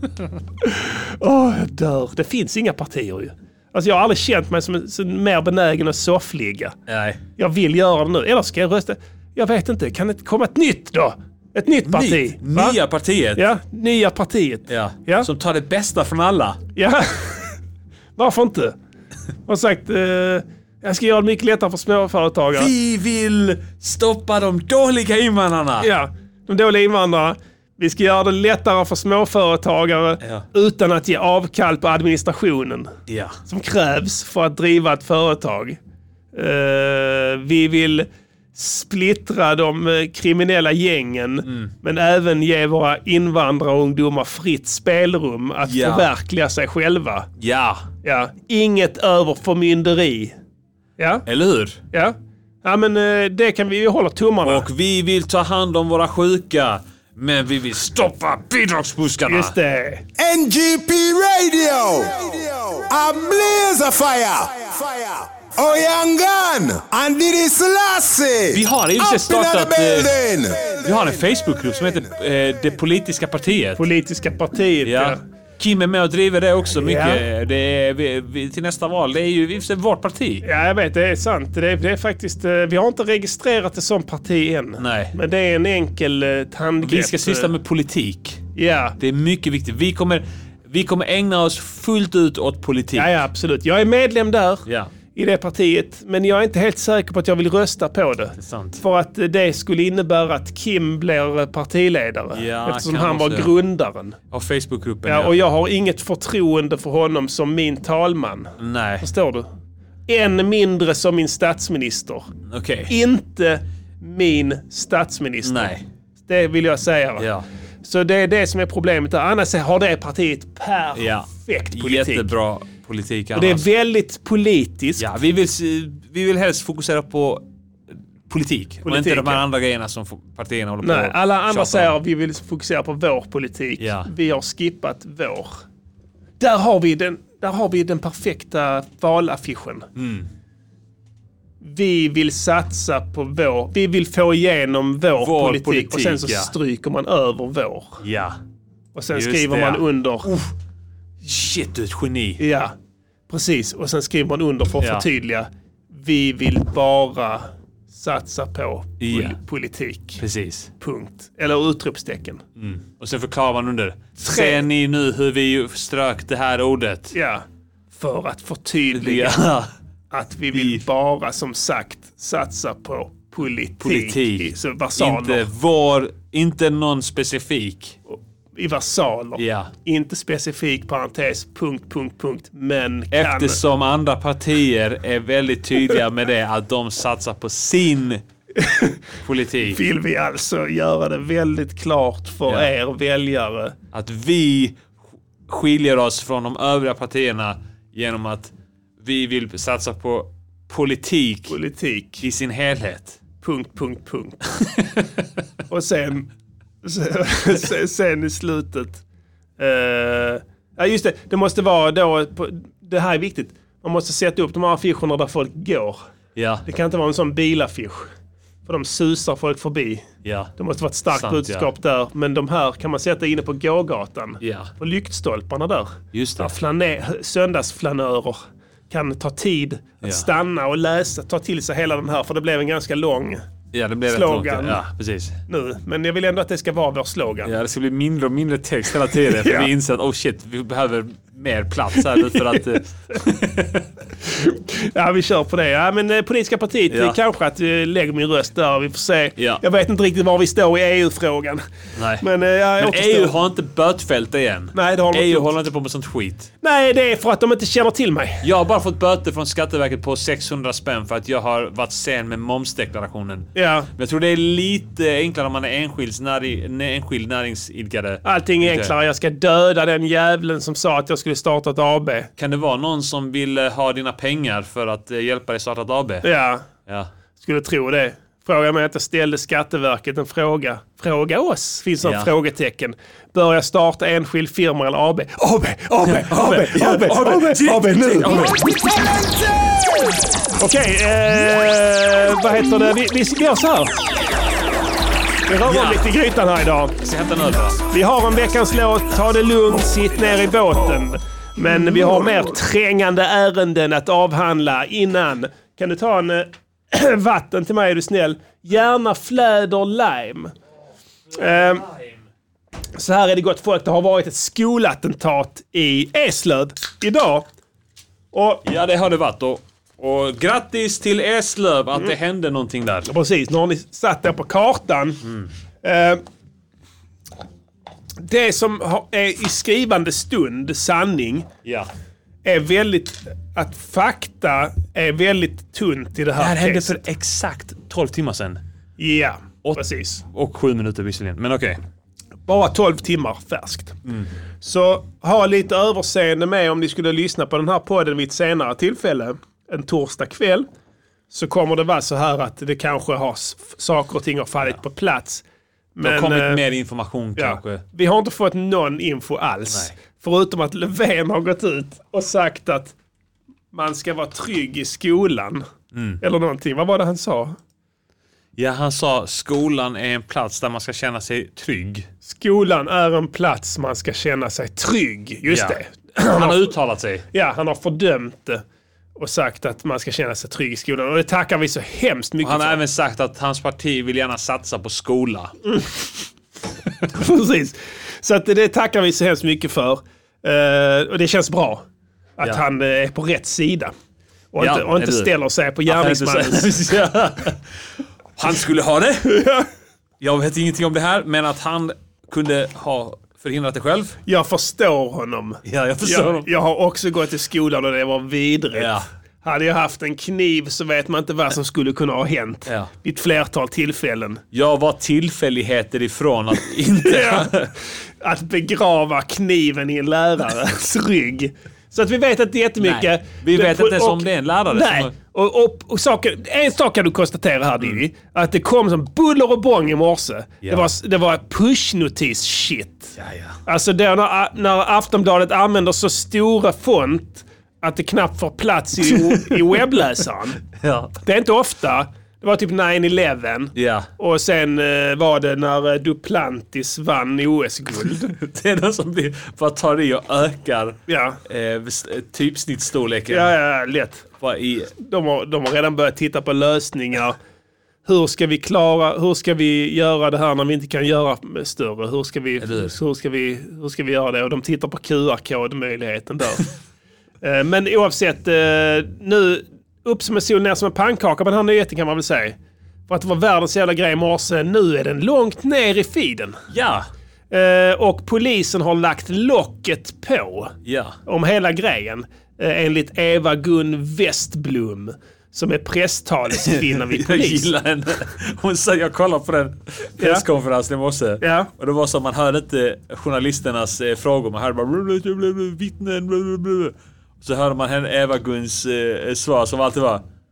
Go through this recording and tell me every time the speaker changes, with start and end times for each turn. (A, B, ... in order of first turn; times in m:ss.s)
0:00.6-0:06.8 A
0:06.9-0:07.2 B
0:07.4-0:12.8 A
0:11.9-0:13.4 B
0:13.4-0:15.3 A
0:14.7-0:16.6 B
0:16.8-0:17.6 A
0:18.2-0:18.8 A
0:19.5-0:22.7 A
0:22.6-0:25.9 B
0:25.8-0:32.9 A
0:33.1-0:33.4 B
0:33.5-0:35.8 A
0:36.3-0:47.3 A
0:45.6-0:46.1 B
0:47.4-0:47.8 B
0:48.0-0:50.4 A
0:51.0-0:51.2 A
0:51.3-0:51.8 B
0:51.9-0:54.7 A
0:54.4-0:59.5 B
0:59.3-1:00.0 A
1:00.2-1:10.8 C
1:08.5-1:10.1 B
1:10.8-1:13.8 B
1:13.8-1:15.2 A
1:14.8-1:20.4 B
1:16.8-1:17.2 A
1:20.4-1:27.5 A
1:24.8-1:25.1 B
1:26.8-1:28.4 B
1:28.6-1:29.0 A
1:29.0-1:33.1 B
1:33.0-1:44.2 A
1:34.7-1:34.9 B
1:38.4-1:38.8 B
1:42.3-1:43.5 B
1:44.3-1:45.4 B
1:45.0-1:49.5 A
1:48.6-1:49.1 B
1:50.1-1:52.3 A
1:52.5-1:52.9 B
1:52.9-1:57.3 A
1:55.4-1:55.8 B
1:57.2-1:57.4 B
1:57.8-2:02.3 A
2:01.0-2:03.6 B
2:03.4-2:05.0 A
2:05.0-2:07.4 B
2:08.3-2:12.0 B
2:08.8-2:09.4 A
2:10.8-2:15.6 A
2:13.8-2:14.1 B
2:16.4-2:19.9 A
2:20.0-2:20.3 B
2:21.6-2:28.0 A
2:25.2-2:26.5 B
2:28.0-2:28.4 B
2:29.0-2:30.3 A
2:29.1-2:30.5 B
2:31.2-2:32.4 B
2:32.4-2:32.7 A
2:33.3-2:40.2 A
2:39.0-2:39.4 B
2:40.2-2:40.7 B
2:40.8-2:42.4 A
2:42.6-2:47.1 B
2:44.2-2:44.6 A
2:47.1-2:49.4 A
2:48.9-2:49.7 B
2:50.1-2:55.4 A
2:50.5-2:50.8 B
2:53.8-2:58.0 B
2:58.1-3:03.6 A
2:59.4-2:59.7 B
3:03.1-3:08.2 B
3:08.6-3:09.0 A
3:09.2-3:09.8 B
3:09.7-3:13.8 A
3:13.9-3:14.8 B
3:15.5-3:21.6 B
3:21.5-3:22.2 A
3:22.2-3:23.2 B
3:23.4-3:24.4 A
3:25.7-3:26.3 A
3:26.8-3:29.0 A
3:29.6-3:36.0 A
3:36.4-3:36.6 B
3:36.7-3:38.1 A
3:38.7-3:40.0 A
3:40.2-3:40.5 B
3:40.6-3:53.4 A
3:41.1-3:41.7 B
3:44.4-3:44.7 B
3:46.1-3:46.5 B
3:53.7-3:55.4 B
3:54.1-3:54.8 A
3:55.5-3:57.5 A
3:57.4-4:03.8 B
3:59.3-3:59.7 A
4:02.1-4:02.6 A
4:04.3-4:11.6 A
4:06.9-4:07.2 B
4:12.0-4:12.2 B
4:12.2-4:13.3 A
4:12.8-4:16.5 B
4:14.7-4:15.5 A
4:16.6-4:18.4 A
4:18.4-4:28.9 B
4:23.6-4:23.9 A
4:28.2-4:32.3 A
4:32.4-4:36.3 B
4:36.2-4:36.7 A
4:37.4-4:48.6 A
4:42.0-4:42.3 B
4:46.0-4:48.7 B
4:50.6-4:53.9 A
4:55.5-4:56.9 A
4:55.7-4:56.0 B
4:57.0-4:57.8 B
4:57.9-5:10.5 A
5:11.4-5:11.9 A
5:11.6-5:12.1 B
5:13.0-5:17.5 A
5:18.3-5:18.6 A
5:18.6-5:23.1 B
5:23.1-5:25.2 A
5:25.8-5:26.2 A
5:28.2-5:31.5 A
5:32.4-5:37.0 A
5:36.4-5:38.6 B
5:39.0-5:40.2 A
5:39.6-5:41.8 B
5:42.5-5:44.0 A
5:44.6-5:50.7 A
5:51.3-5:55.4 A
5:56.0-5:56.6 A
5:56.0-5:57.8 B
5:57.4-6:02.9 A
6:03.7-6:05.7 A
6:05.9-6:06.2 B
6:06.2-6:07.6 A
6:08.6-6:12.1 B
6:12.2-6:16.7 A
6:15.5-6:15.8 B
6:16.3-6:17.2 B
6:17.3-6:18.6 A
6:19.2-6:22.8 A
6:22.4-6:25.5 B
6:27.1-6:31.8 A
6:32.4-6:33.9 A
6:34.5-6:36.7 A
6:34.6-6:35.3 B
6:35.9-6:37.6 B
6:38.4-6:39.4 B
6:39.3-6:39.6 A
6:40.2-6:44.2 B
6:44.3-6:48.9 A
6:45.7-6:46.5 B
6:48.8-6:49.0 B
6:49.4-6:54.4 A
6:54.5-6:57.7 B
6:57.0-6:57.5 A
6:58.2-7:13.1 A
7:02.8-7:05.1 B
7:13.2-7:13.6 B
7:13.7-7:20.6 A
7:19.1-7:19.8 B
7:20.8-7:21.2 B
7:21.2-7:28.3 A
7:23.8-7:24.1 B
7:28.3-7:33.5 B
7:31.1-7:31.4 A
7:33.3-7:34.2 A
7:34.4-7:34.9 B
7:35.0-7:37.4 A
7:38.1-7:46.7 A
7:42.6-7:42.9 B
7:47.4-7:52.6 A
7:53.1-7:56.6 A
7:56.7-7:57.1 B
7:57.5-8:00.7 A
8:00.8-8:01.2 B
8:01.3-8:07.7 A
8:06.6-8:20.2 B
8:10.2-8:10.4 A
8:11.4-8:11.7 A